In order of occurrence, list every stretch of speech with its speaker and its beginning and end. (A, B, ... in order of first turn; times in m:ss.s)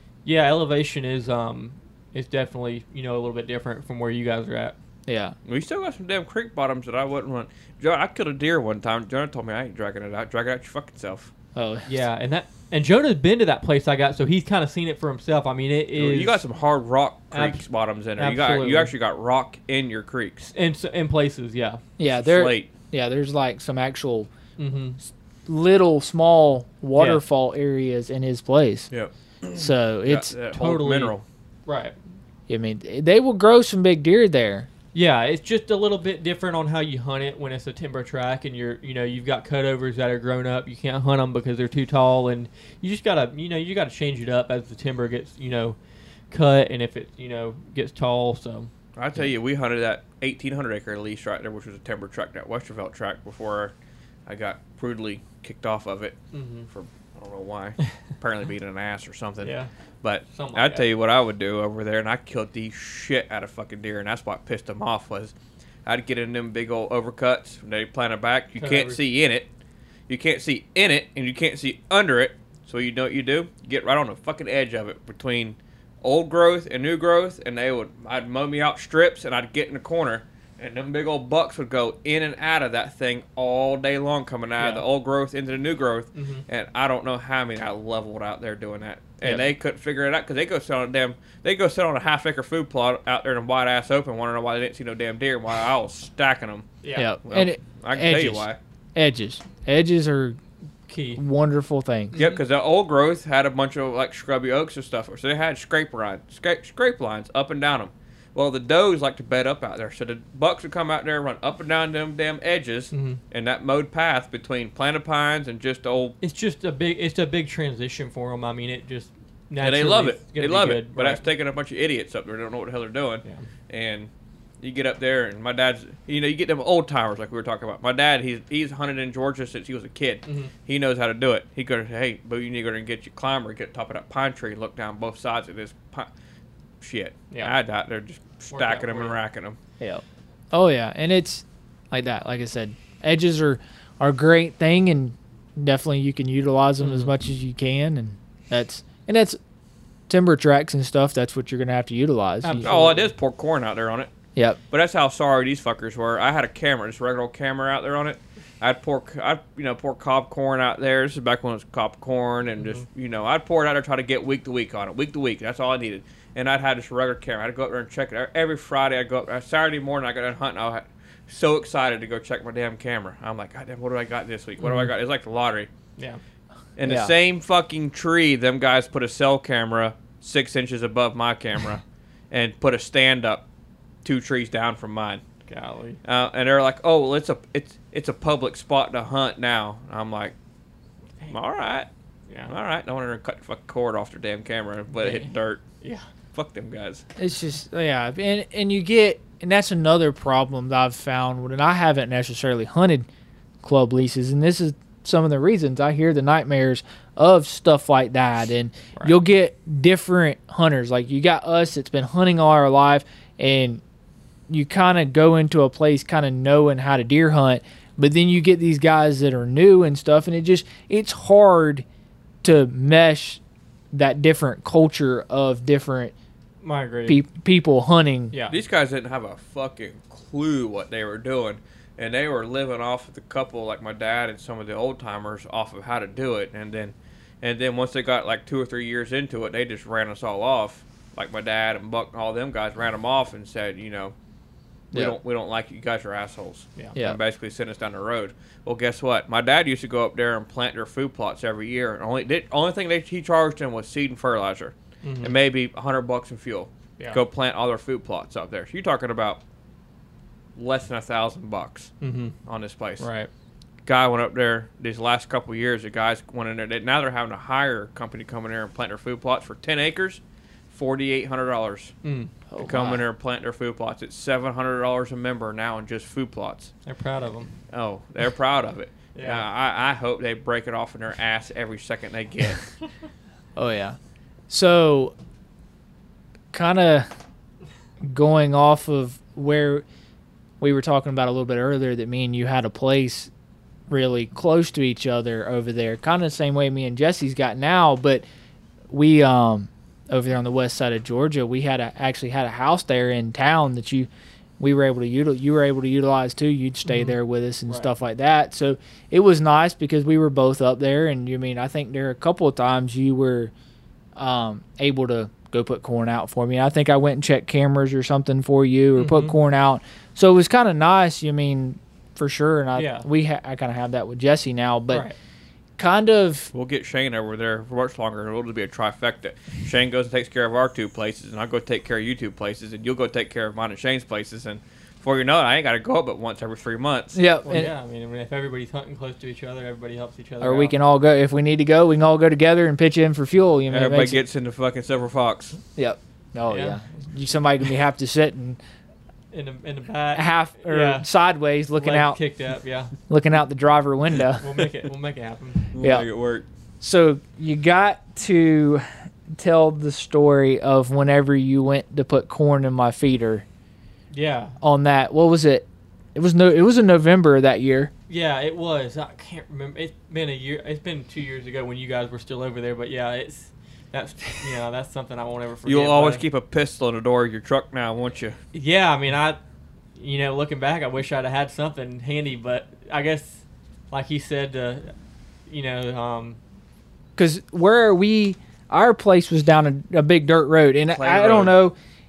0:00.2-0:04.8 A
0:05.1-0:05.3 B
0:05.4-0:11.3 C
0:11.5-0:11.9 B
0:11.8-0:16.4 A
0:16.0-0:20.5 C
0:17.3-0:17.6 A
0:18.2-0:18.9 A
0:20.5-0:21.8 A
0:22.0-0:24.3 B
0:22.1-0:22.7 C
0:24.6-0:25.0 A
0:25.5-0:28.9 B
0:27.0-0:27.2 A
0:28.9-0:31.2 C
0:29.5-0:30.3 B
0:30.5-0:31.1 A
0:31.6-0:31.9 A
0:32.5-0:34.7 B
0:34.9-0:45.8 A
0:46.3-0:48.7 A
0:49.0-0:53.7 C
0:54.3-1:05.3 C
0:56.3-0:56.7 A
0:59.4-0:59.7 A
1:00.3-1:00.8 A
1:05.8-1:09.5 C
1:08.6-1:09.0 A
1:10.1-1:36.7 C
1:26.1-1:26.4 A
1:36.8-1:37.1 A
1:36.9-1:40.4 B
1:37.2-1:38.6 C
1:40.9-1:41.2 A
1:41.1-1:42.2 B
1:42.1-1:42.4 A
1:42.1-1:56.2 C
1:52.9-1:53.2 A
1:56.2-2:01.2 A
1:59.6-2:04.1 C
2:04.6-2:16.1 C
2:10.2-2:10.5 A
2:16.8-2:19.6 C
2:18.5-2:19.2 A
2:19.8-2:29.4 B
2:26.8-2:27.1 A
2:30.1-2:32.7 B
2:32.4-2:33.1 A
2:32.6-2:34.1 C
2:34.7-2:55.7 C
2:56.8-3:03.4 C
2:56.8-2:57.1 B
3:04.0-3:05.2 C
3:05.5-3:06.0 A
3:06.0-3:10.3 C
3:11.3-3:11.9 C
3:12.3-3:12.5 A
3:12.5-3:15.6 C
3:14.9-3:15.3 A
3:16.3-3:17.0 C
3:17.2-3:23.1 B
3:23.6-3:33.8 B
3:34.5-3:41.8 B
3:42.4-3:43.4 B
3:43.9-3:46.1 B
3:46.6-3:47.2 A
3:47.1-3:48.3 B
3:48.3-3:48.6 A
3:48.5-4:04.1 C
4:04.9-4:19.4 C
4:15.0-4:15.3 A
4:20.6-4:21.9 C
4:22.0-4:22.4 A
4:22.4-4:23.0 C
4:23.0-4:23.3 A
4:23.8-4:31.9 C
4:32.0-4:32.3 A
4:32.5-4:33.0 B
4:32.6-4:36.7 C
4:36.8-4:37.5 A
4:37.7-4:42.6 C
4:39.1-4:39.4 A
4:43.6-4:44.0 B
4:44.5-4:45.1 B
4:46.5-4:47.1 B
4:48.0-4:49.8 B
4:50.6-4:53.3 B
4:53.9-4:58.2 B
4:58.9-5:13.5 B
5:06.9-5:07.1 A
5:14.2-5:25.0 B
5:19.0-5:19.4 A
5:22.8-5:23.0 A
5:24.9-5:25.1 A
5:25.8-5:26.5 B
5:26.5-5:37.2 C
5:37.1-5:37.7 B
5:37.4-5:40.7 A
5:40.4-5:44.2 B
5:43.7-5:45.6 C
5:45.8-5:48.6 B
5:46.5-5:46.8 A
5:49.3-5:51.1 A
5:50.1-5:52.2 B
5:51.8-5:52.9 A
5:53.1-5:54.4 B
5:54.4-5:55.6 A
5:55.7-5:56.4 C
5:56.8-6:03.4 B
6:04.1-6:04.6 A
6:04.6-6:07.9 B
6:08.1-6:16.2 A
6:15.6-6:18.4 C
6:18.5-6:19.4 A
6:20.0-6:24.9 A
6:25.5-6:26.4 A
6:27.2-6:31.8 B
6:30.9-6:31.5 C